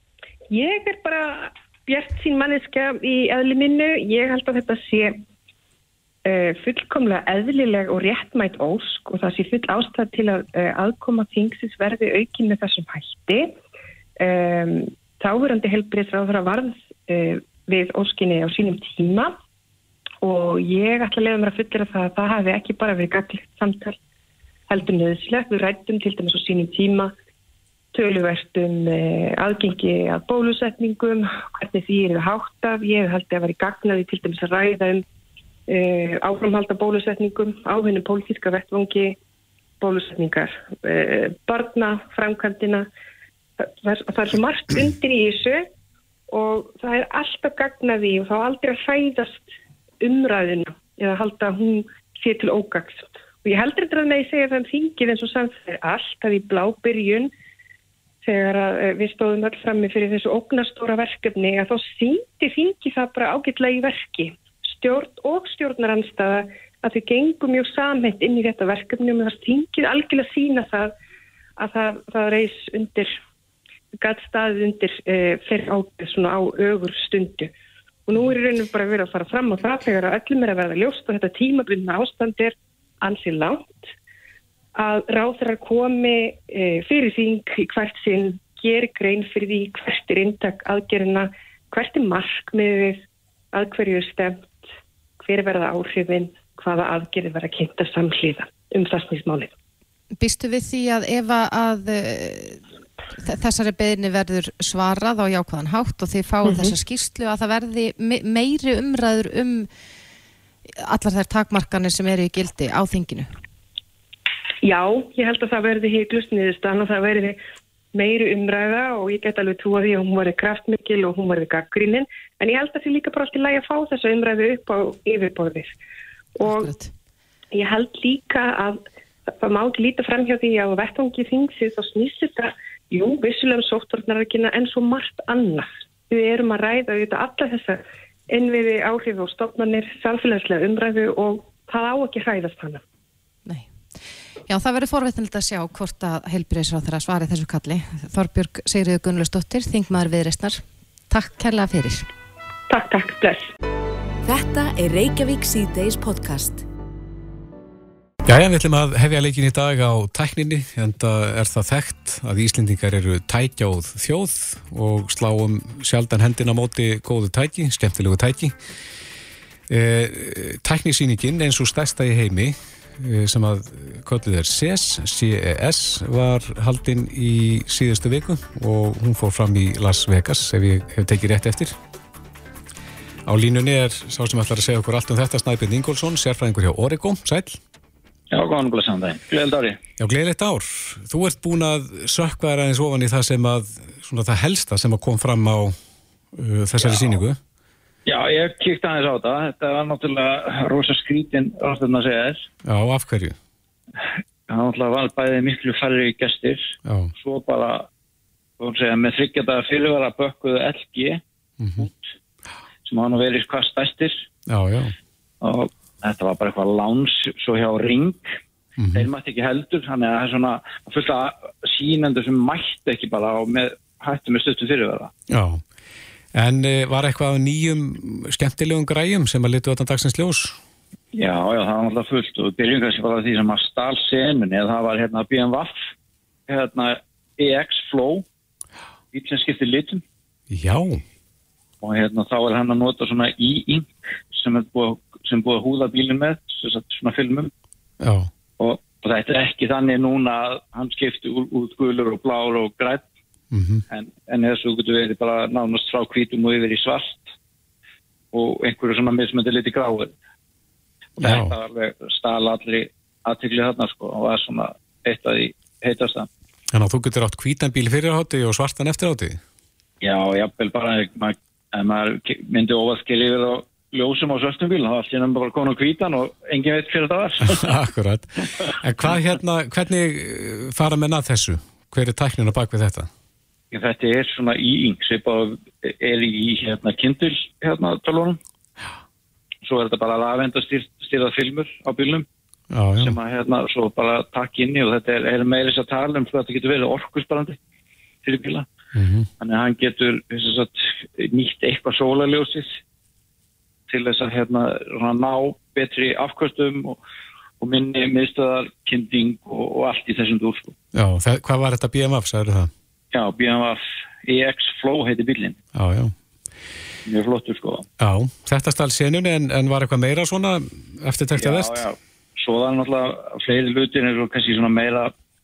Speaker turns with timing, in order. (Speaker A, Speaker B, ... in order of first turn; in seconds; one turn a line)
Speaker A: 0.5-5.2
Speaker A: 6.3-13.5
Speaker A: 14.2-19.4
Speaker A: 20.2-24.0
Speaker A: 24.7-27.1
Speaker A: 27.9-35.0
Speaker A: 35.7-39.2
Speaker A: 39.8-42.9
Speaker A: 43.6-45.7
Speaker A: 46.3-49.5
Speaker A: 50.0-57.3
Speaker A: 58.2-70.9
Speaker A: 71.6-73.1
Speaker A: 74.0-77.5
Speaker A: 78.1-83.9
Speaker A: 84.8-94.5
Speaker A: 95.2-99.5
Speaker B: 100.2-102.6
Speaker B: 103.2-109.7
Speaker A: 106.5-106.7
Speaker B: 110.7-113.3
Speaker A: 114.6-117.4
Speaker A: 117.9-125.8
Speaker A: 126.4-126.7
Speaker B: 126.4-126.9
Speaker A: 127.5-137.8
Speaker A: 138.3-142.8
Speaker B: 144.5-152.1
Speaker A: 152.7-153.5
Speaker C: 154.2-156.6
Speaker D: 158.2-168.5
Speaker D: 169.7-181.8
Speaker D: 183.3-187.6
Speaker E: 188.3-189.8
Speaker D: 190.0-195.8
Speaker D: 196.3-197.4
Speaker E: 196.8-197.2
Speaker E: 198.1-202.5
Speaker D: 202.6-203.4
Speaker E: 204.5-207.9
Speaker D: 206.8-207.1
Speaker E: 208.6-211.2
Speaker D: 211.6-211.8
Speaker E: 211.8-212.1
Speaker E: 212.8-214.2
Speaker D: 214.5-214.9
Speaker E: 215.4-218.3
Speaker D: 218.8-219.1
Speaker E: 218.9-225.1
Speaker D: 225.3-225.6
Speaker D: 226.3-230.6
Speaker E: 231.1-235.9
Speaker E: 236.5-238.3
Speaker E: 239.1-240.0
Speaker D: 240.5-241.0
Speaker E: 241.8-247.5
Speaker D: 248.0-248.3
Speaker E: 248.6-253.1
Speaker D: 253.5-253.8
Speaker E: 253.9-257.3
Speaker E: 258.3-260.1
Speaker E: 261.2-266.3
Speaker D: 261.2-261.5
Speaker D: 266.7-269.4
Speaker E: 270.0-277.6
Speaker D: 277.5-283.1
Speaker E: 283.7-288.4
Speaker E: 289.6-292.3
Speaker D: 292.7-293.1
Speaker E: 293.0-297.6
Speaker E: 298.2-298.7
Speaker D: 298.9-299.3
Speaker E: 299.4-302.8
Speaker E: 303.9-307.0
Speaker E: 307.6-310.7
Speaker D: 310.9-312.7
Speaker E: 313.1-315.6
Speaker D: 315.8-316.1
Speaker E: 317.1-317.9
Speaker D: 318.0-321.8
Speaker E: 321.4-325.1